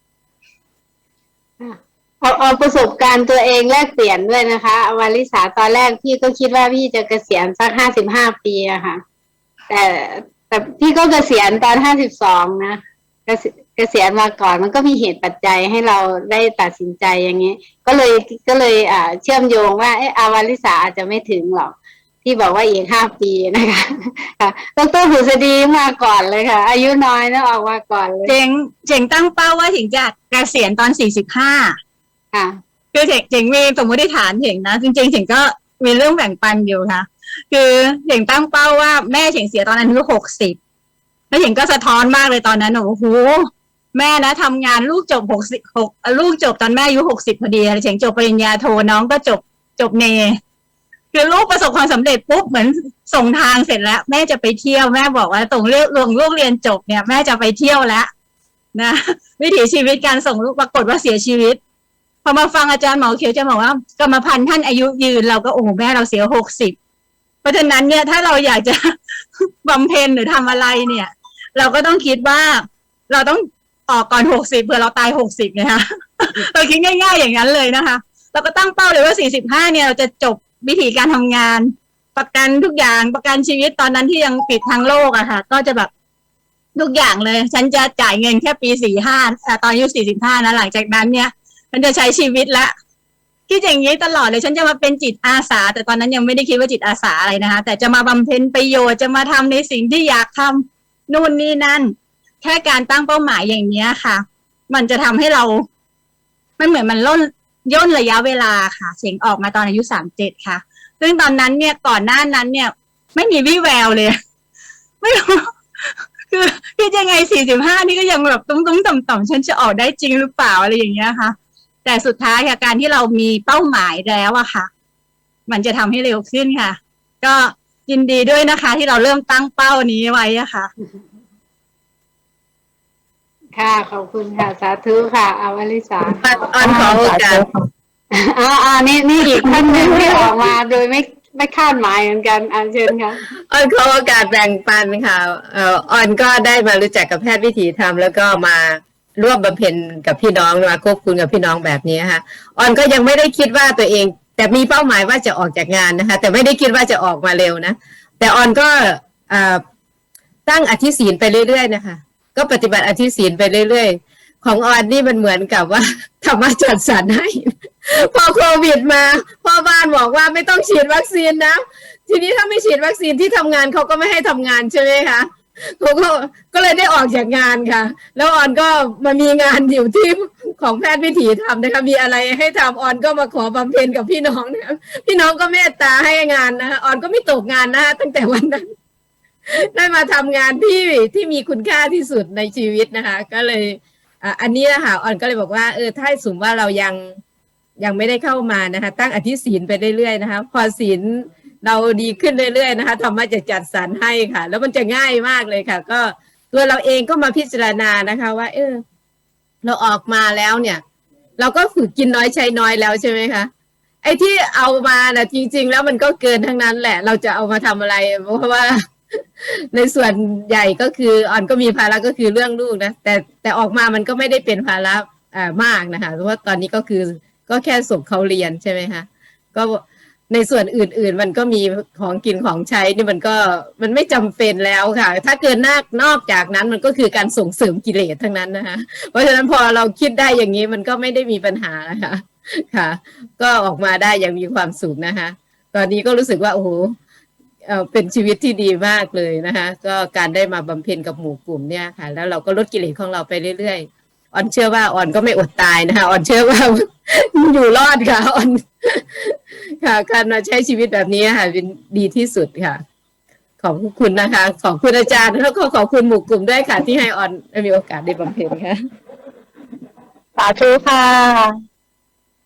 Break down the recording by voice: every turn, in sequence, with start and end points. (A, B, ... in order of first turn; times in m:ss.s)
0:01.6-0:09.0 A
0:09.7-0:28.3 A
0:28.2-0:31.8 B
0:32.3-0:32.6 A
0:32.9-0:40.6 B
0:41.3-0:50.4 B
0:51.1-0:58.1 B
0:58.7-1:01.6 B
1:02.2-1:06.8 B
1:07.4-1:25.9 B
1:26.8-1:32.7 B
1:33.5-1:45.7 B
1:46.6-1:54.2 B
1:55.0-2:04.7 B
2:05.5-2:10.7 B
2:13.5-2:17.0 A
2:16.0-2:17.4 C
2:16.9-2:17.6 D
2:18.1-2:23.2 A
2:19.4-2:20.2 D
2:23.2-2:39.6 C
2:40.4-3:08.7 C
3:09.6-3:17.2 C
3:17.8-3:28.8 C
3:29.6-3:30.8 C
3:31.4-3:33.5 C
3:34.0-4:07.0 C
4:07.6-4:22.8 C
4:23.6-4:28.8 C
4:30.4-4:31.5 D